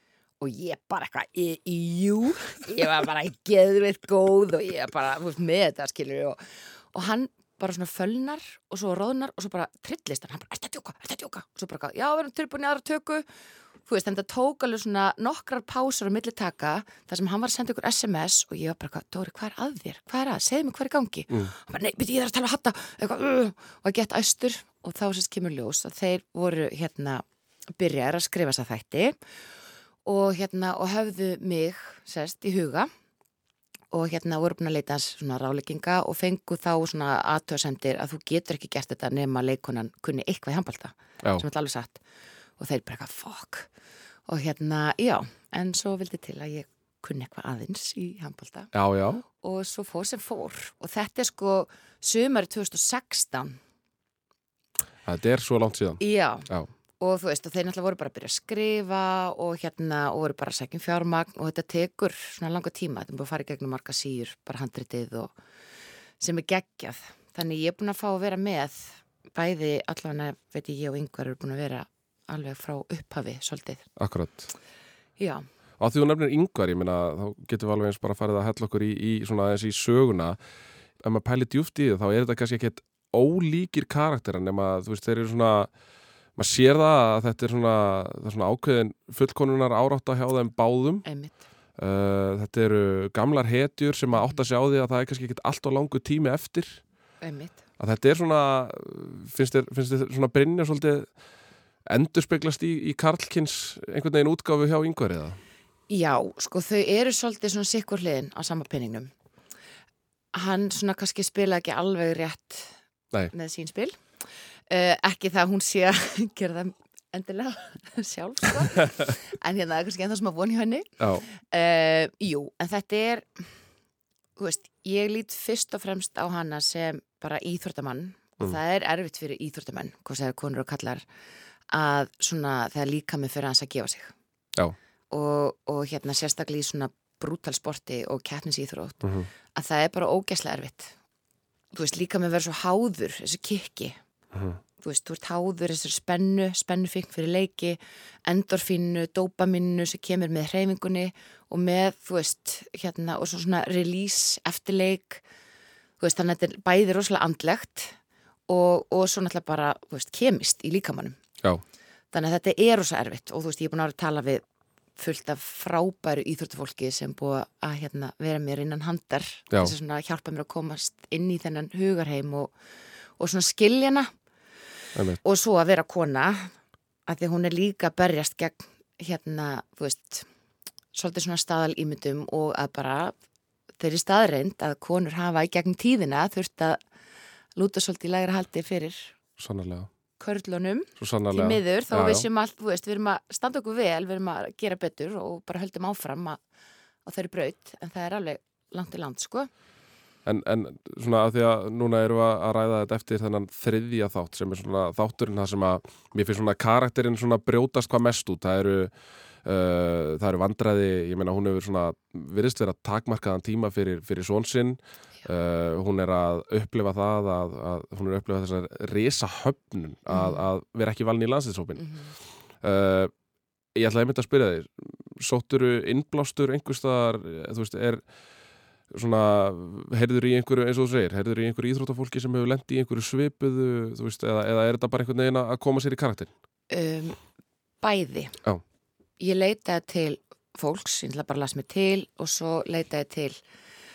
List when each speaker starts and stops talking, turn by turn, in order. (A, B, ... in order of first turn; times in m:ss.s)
0:00.4-0:13.3 A
0:13.9-0:27.2 A
0:27.8-0:29.2 A
0:30.0-0:32.9 A
0:33.9-0:42.0 A
0:42.6-0:43.7 A
0:44.3-0:53.6 A
0:48.7-0:49.2 B
0:55.1-0:56.7 B
0:56.0-1:05.4 A
1:06.2-1:13.9 A
1:14.0-1:14.5 B
1:15.2-1:15.5 A
1:15.8-1:20.4 B
1:21.0-1:25.7 B
1:26.4-1:31.1 B
1:31.0-1:31.4 A
1:31.8-1:36.8 B
1:34.1-1:34.4 A
1:37.2-1:37.6 A
1:37.8-1:41.2 B
1:41.9-1:45.4 B
1:45.9-1:49.1 A
1:50.3-1:52.7 A
1:53.3-1:54.0 A
1:54.7-2:03.5 A
2:01.0-2:01.3 B
2:04.4-2:11.1 A
2:11.7-2:14.1 A
2:15.1-2:19.0 A
2:19.0-2:19.3 B
2:19.6-2:20.9 A
2:21.7-2:24.0 A
2:24.3-2:24.6 B
2:24.8-2:35.2 A
2:36.0-2:38.0 A
2:38.5-2:41.2 A
2:42.1-2:44.4 A
2:45.0-2:52.6 A
2:53.2-2:54.1 A
2:55.2-2:56.5 A
2:57.1-3:00.3 A
3:00.9-3:03.1 A
3:03.8-3:06.8 A
3:07.6-3:09.1 A
3:09.4-3:09.9 B
3:10.2-3:16.4 A
3:11.0-3:12.3 B
3:17.1-3:19.5 A
3:20.3-3:41.8 B
3:40.1-3:40.4 A
3:41.8-3:42.2 A
3:42.6-3:43.1 B
3:43.8-3:48.1 B
3:48.9-3:56.3 B
3:56.7-3:57.2 A
3:57.8-3:58.4 A
3:59.2-4:03.4 A